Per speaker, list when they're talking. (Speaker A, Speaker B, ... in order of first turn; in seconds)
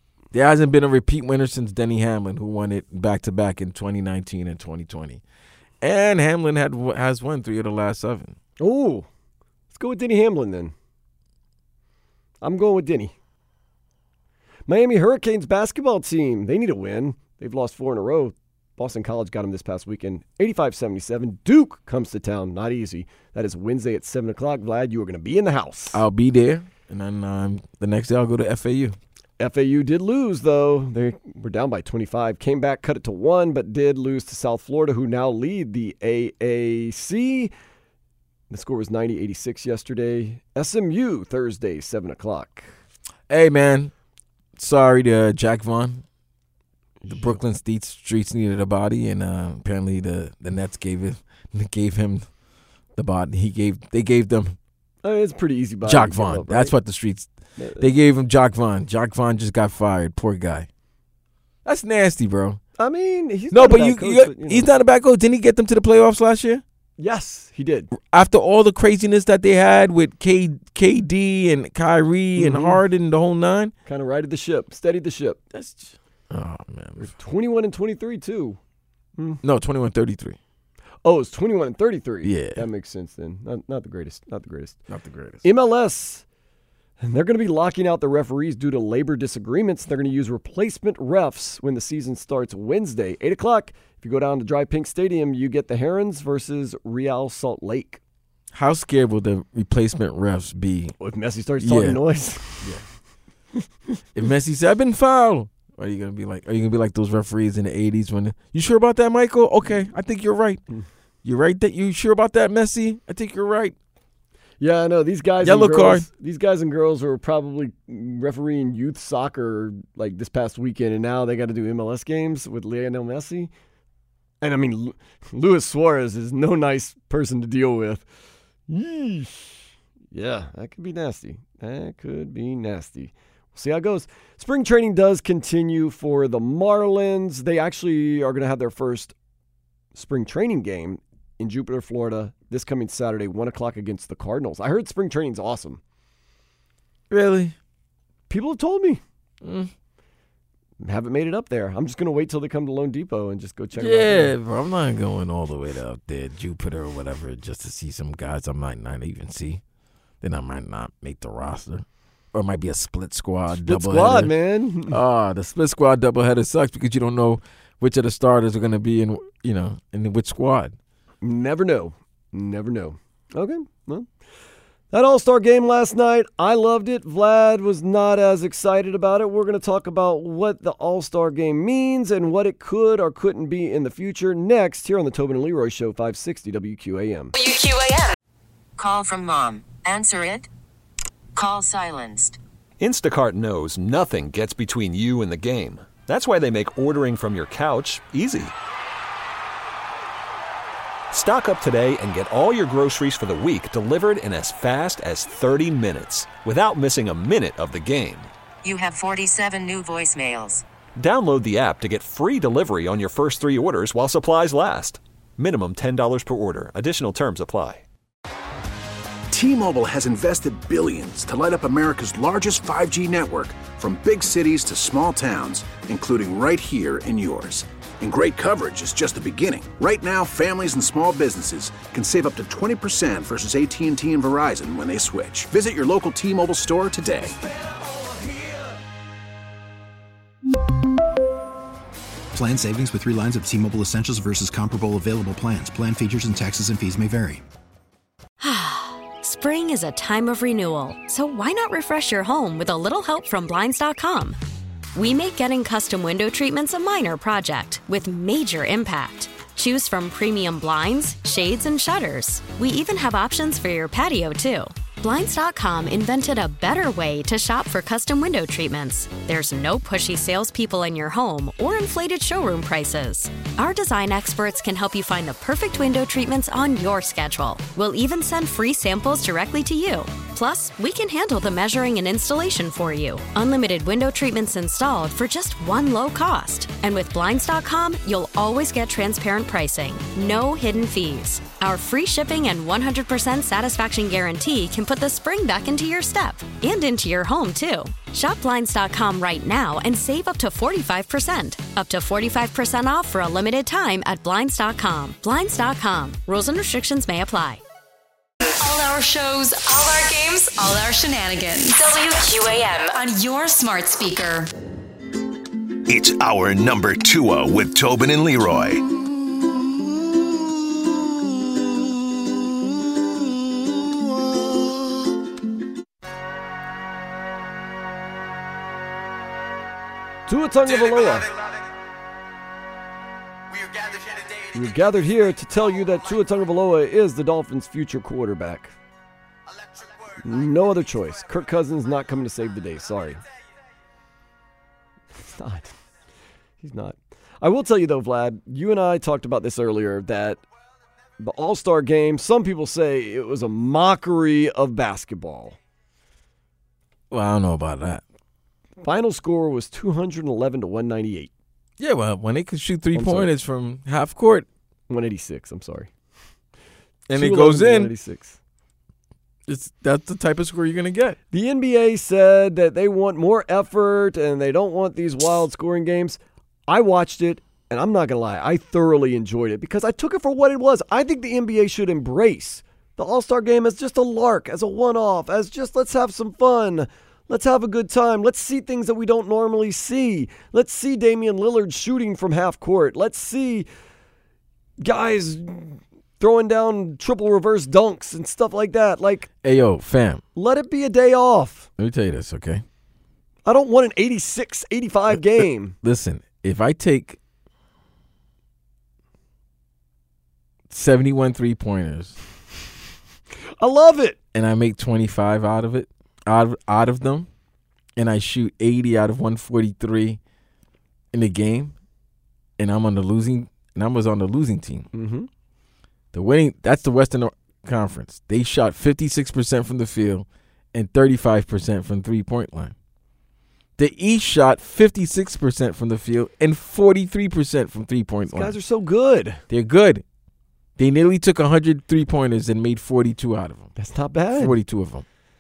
Speaker A: 0.3-5.2, 5.8-8.4, 25.9-29.0, 43.3-43.9, 44.6-46.0, 47.1-52.3, 53.0-54.6, 55.9-60.7, 61.6-62.6, 63.5-66.6, 68.0-73.7, 75.5-77.1, 79.4-80.4, 82.2-82.6, 84.9-85.4, 98.5-100.9, 101.6-102.0, 104.1-110.6, 111.2-113.8, 115.4-116.1, 147.1-147.6, 149.4-149.7, 153.8-159.6, 160.2-164.3, 164.9-170.8, 357.1-358.0, 361.8-364.5, 367.1-367.9, 369.5-371.2, 399.4-400.2, 401.8-402.6, 405.1-407.2, 410.7-412.1, 414.3-417.3, 418.0-420.2, 421.1-421.7, 422.6-424.9, 426.1-432.7, 433.8-438.5, 439.5-440.0, 440.8-443.7, 444.4-445.1
Speaker B: 8.6-9.1, 9.7-10.7, 12.4-13.1, 14.7-26.0, 29.4-37.5, 38.5-42.7, 47.0-47.4, 55.0-56.7, 57.6-57.9, 62.8-64.7, 67.0-67.9, 72.4-72.8, 73.9-75.4, 77.0-78.6, 81.0-84.8, 85.4-86.2, 87.0-98.0, 101.0-102.8, 114.6-123.5, 124.4-128.1, 128.7-139.1, 139.9-145.8, 148.3-149.0, 150.8-154.3, 163.6-165.0, 171.2-174.1, 174.9-187.3, 330.3-331.3, 334.5-338.7, 340.2-343.2, 345.2-345.7, 346.6-350.4, 351.2-355.6, 358.8-361.3, 362.9-363.3, 364.9-365.9, 367.1-368.4, 371.3-393.7, 394.8-399.3, 400.4-401.7, 403.4-405.7, 413.6-414.2, 424.9-425.3, 438.3-439.4, 443.8-444.6
Speaker C: 187.3-188.2, 308.4-314.5
Speaker D: 188.8-190.5, 191.3-192.4, 208.6-210.6
Speaker E: 192.8-198.5, 201.1-208.3, 211.0-217.8
Speaker F: 219.3-237.4
Speaker G: 242.3-247.4
Speaker H: 248.4-254.4, 254.9-307.6
Speaker I: 315.9-318.8